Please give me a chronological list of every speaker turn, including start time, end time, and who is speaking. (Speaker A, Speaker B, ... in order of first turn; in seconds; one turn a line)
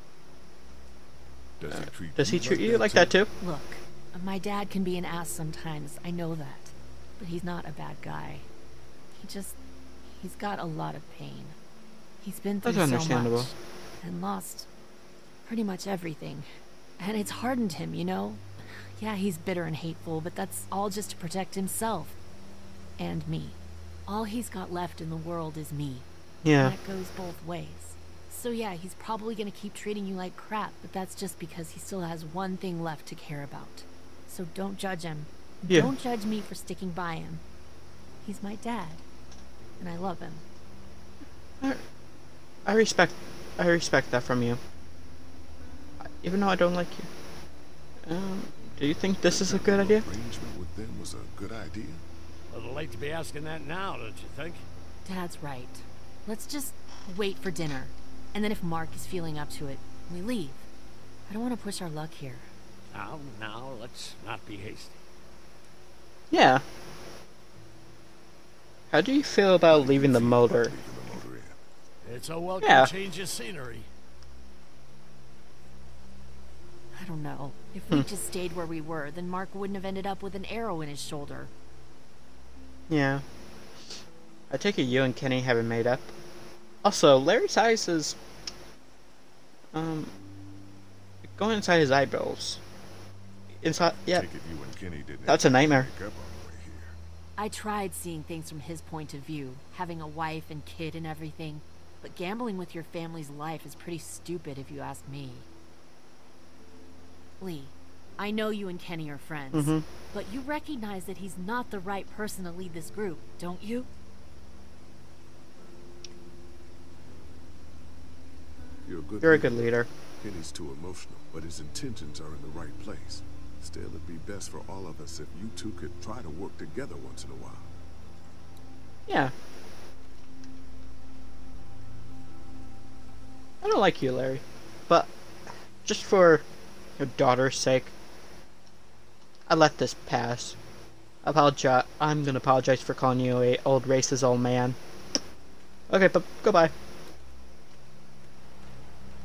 Speaker A: 1.6-3.1
Speaker B: 1.7-3.3
Speaker C: 3.4-8.5
Speaker C: 9.1-11.6
Speaker C: 12.2-14.7
Speaker B: 12.6-13.5
Speaker C: 15.4-22.2
Speaker C: 23.0-37.4
Speaker B: 26.4-26.7
Speaker C: 38.2-39.0
Speaker C: 39.8-40.4
Speaker B: 42.6-44.6
Speaker B: 46.2-47.1
Speaker B: 48.0-50.0
Speaker A: 49.2-52.0
Speaker D: 52.5-54.6
Speaker C: 55.0-60.6
Speaker C: 61.3-62.5
Speaker D: 62.9-65.0
Speaker B: 66.3-66.6
Speaker B: 68.9-70.7
Speaker A: 69.7-71.6
Speaker D: 72.0-73.9
Speaker B: 72.6-72.9
Speaker C: 76.9-81.5
Speaker B: 82.9-83.2
Speaker B: 84.5-86.1
Speaker B: 86.8-88.2
Speaker B: 89.7-90.1
Speaker B: 91.3-92.6
Speaker B: 93.6-94.2
Speaker A: 93.7-96.9
Speaker B: 95.2-95.9
Speaker C: 97.4-105.5
Speaker C: 107.4-113.9
Speaker B: 109.5-109.8
Speaker A: 118.8-127.7
Speaker B: 119.2-119.9
Speaker B: 129.1-129.3
Speaker B: 133.6-135.1
Speaker B: 135.8-136.4
Speaker B: 137.0-137.9
Speaker B: 139.5-140.6
Speaker B: 141.2-144.8
Speaker B: 145.9-146.7